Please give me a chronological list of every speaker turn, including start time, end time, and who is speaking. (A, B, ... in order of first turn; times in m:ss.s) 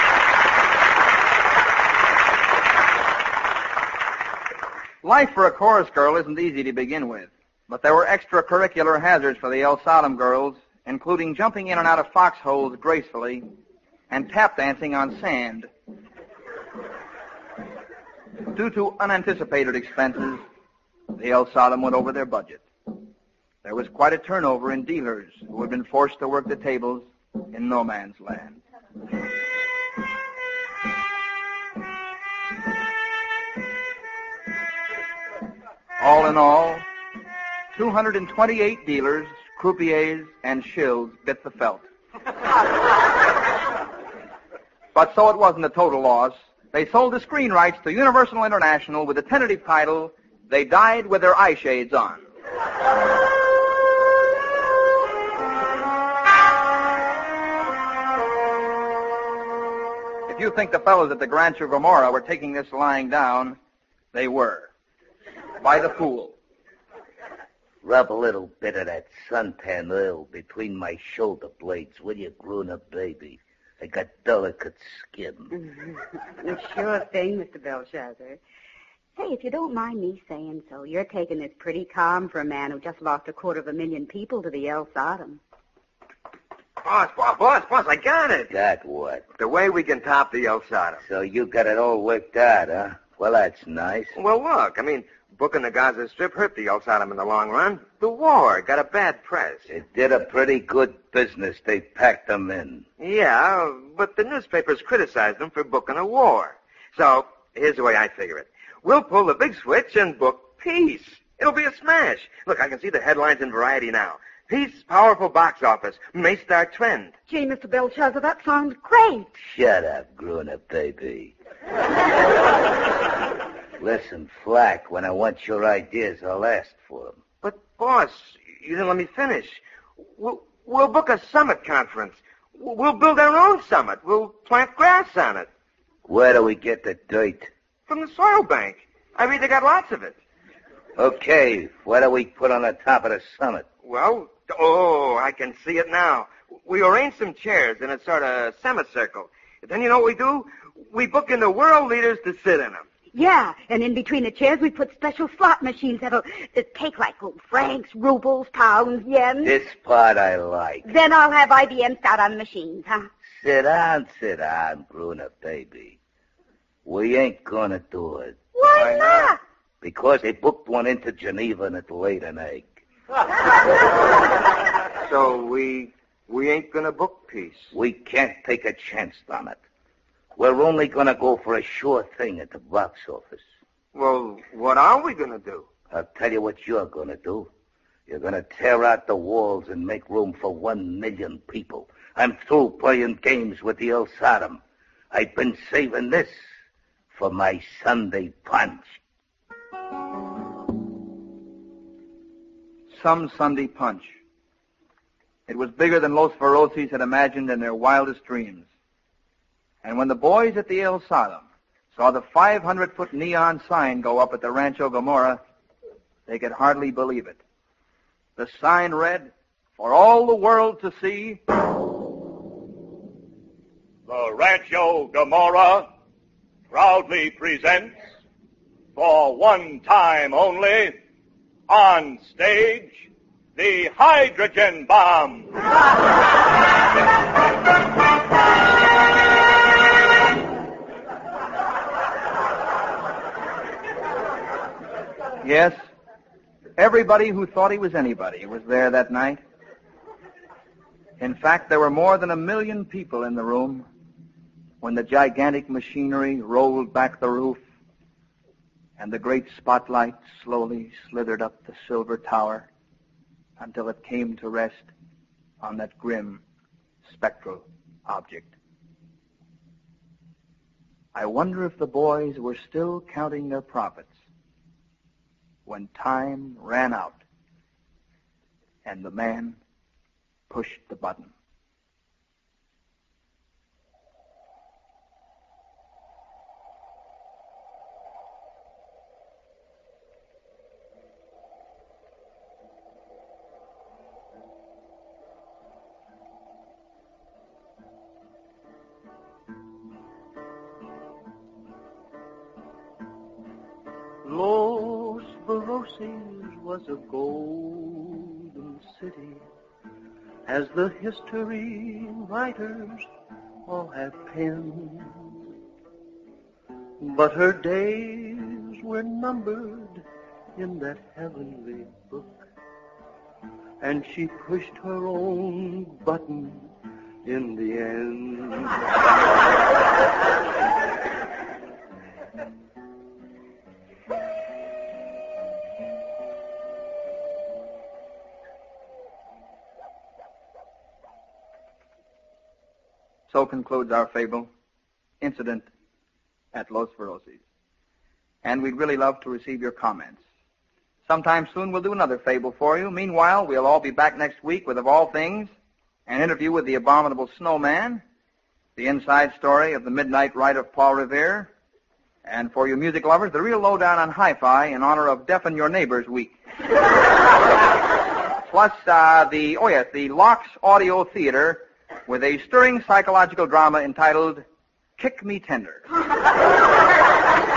0:05.0-0:13.4 A
0:14.1-0:15.7 A
0:18.5-0:20.4 A
0:21.1-0:22.6 A
0:23.6-0:28.6 A
0:36.0-0:36.8 A
0:37.7-0:41.8 A
0:44.9-0:52.2 A
1:00.3-1:03.6 A
1:04.1-1:04.7 A
1:05.6-1:06.3 A
1:07.8-1:15.5 B
1:16.4-1:18.4 C
1:19.2-1:25.4 C
1:26.8-1:28.5 D
1:28.5-1:29.2 B
1:29.4-1:31.0 D
1:31.0-1:34.1 B
1:34.1-1:39.7 D
1:39.7-1:42.8 B
1:43.0-1:57.1 D
1:57.3-1:59.3 C
1:59.4-2:01.3 B
2:03.8-2:07.2 B
2:07.4-2:09.6 D
2:10.2-2:15.5 D
2:16.1-2:17.5 B
2:17.9-2:20.2 D
2:21.0-2:23.6 B
2:23.8-2:32.9 D
2:33.1-2:39.5 C
2:39.4-2:40.9 B
2:40.9-2:43.1 C
2:43.3-2:46.0 B
2:46.8-2:48.4 B
2:48.7-2:49.3 C
2:48.8-2:49.2 D
2:49.8-2:52.8 B
2:55.0-2:57.7 D
2:57.7-2:59.6 B
3:00.3-3:03.4 B
3:03.9-3:05.7 D
3:05.9-3:07.5 B
3:08.1-3:14.6 B
3:15.1-3:16.5 B
3:17.1-3:19.0 B
3:22.9-3:24.2 A
3:25.5-3:28.6 A
3:29.8-3:35.4 A
3:36.3-3:37.4 A
3:38.4-3:41.4 A
3:44.1-3:45.9 E
3:46.7-3:47.9 E
3:48.9-3:51.0 E
3:51.7-3:55.6 E
4:05.4-4:05.8 A
4:06.8-4:09.4 A
4:11.2-4:13.9 A
4:14.8-4:17.6 A
4:19.0-4:22.7 A
4:23.6-4:24.9 A
4:25.6-4:26.4 A
4:27.1-4:28.5 A
4:31.1-4:34.2 A
4:35.6-4:37.2 A
4:38.8-4:39.6 A
4:40.5-4:41.3 A
5:04.2-5:09.4 F
5:10.4-5:13.1 F
5:13.6-5:15.3 F
5:17.0-5:20.0 F
5:20.5-5:22.4 F
5:23.8-5:26.7 F
5:27.2-5:28.8 F
5:43.3-5:44.5 A
5:45.2-5:45.7 A
5:46.5-5:47.4 A
5:48.4-5:50.2 A
5:51.0-5:55.5 A
5:56.1-5:58.0 A
5:58.8-6:01.5 A
6:02.2-6:06.3 A
6:08.5-6:14.4 A
6:15.0-6:15.8 A